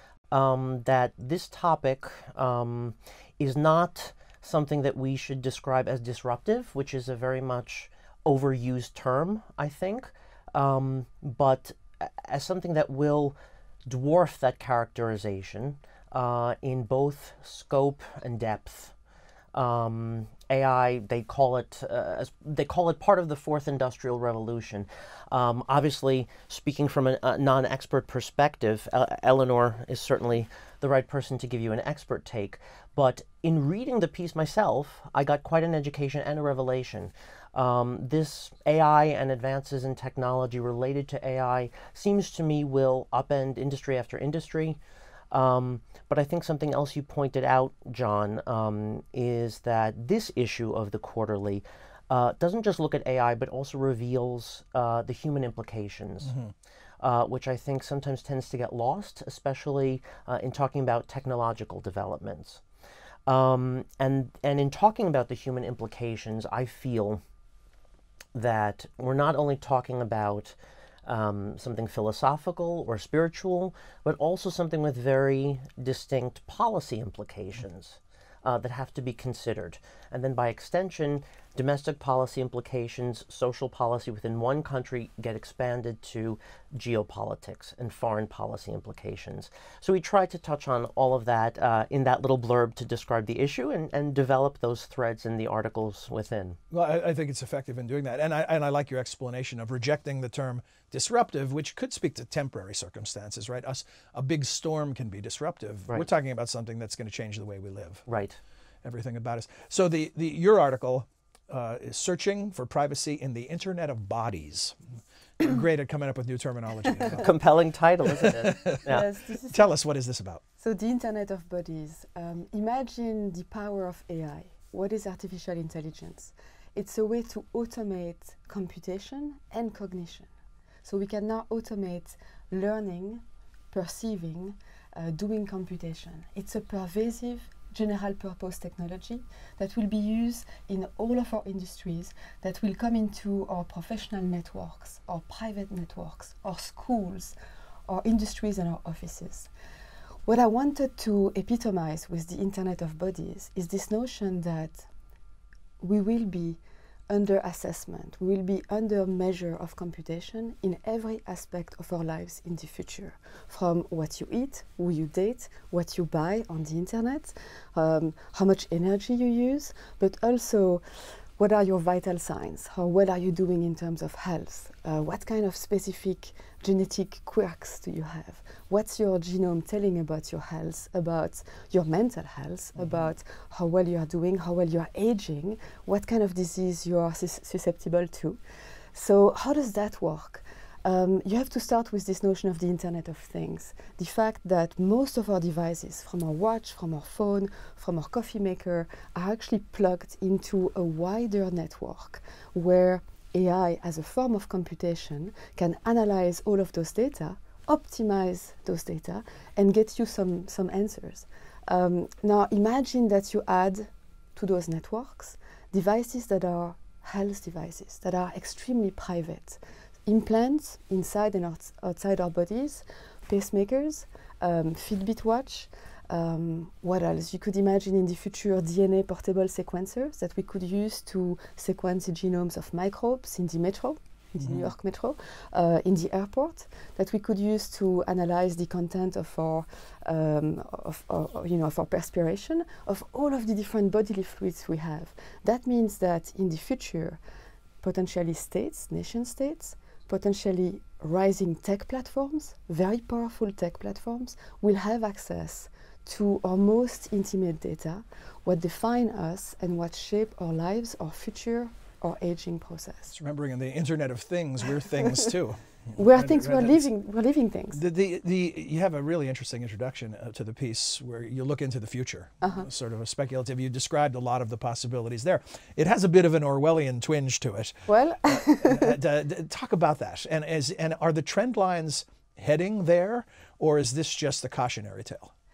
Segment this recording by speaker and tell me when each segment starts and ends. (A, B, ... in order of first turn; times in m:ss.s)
0:00.3-0:18.9 A
0:19.5-0:44.8 A
0:45.3-0:56.3 A
0:56.2-0:56.5 B
0:57.0-1:02.6 A
1:03.3-1:07.2 A
1:08.4-1:36.6 A
1:36.7-1:48.0 B
1:48.1-1:48.4 A
1:48.8-1:54.8 B
1:55.4-1:57.3 B
1:57.2-1:59.0 A
1:58.2-1:58.8 B
1:58.8-1:59.7 C
1:59.5-2:00.4 B
2:00.6-2:10.3 C
2:10.8-2:27.4 C
2:27.9-2:29.5 C
2:30.3-2:34.9 C
2:35.8-2:50.8 C
2:51.4-3:08.4 C
3:08.9-4:07.2 C
3:54.4-3:54.7 B
4:07.8-4:23.2 C
4:23.1-4:26.9 B
4:26.0-4:27.8 C
4:27.7-4:45.3 B
4:32.4-4:32.7 C
4:37.9-4:39.0 C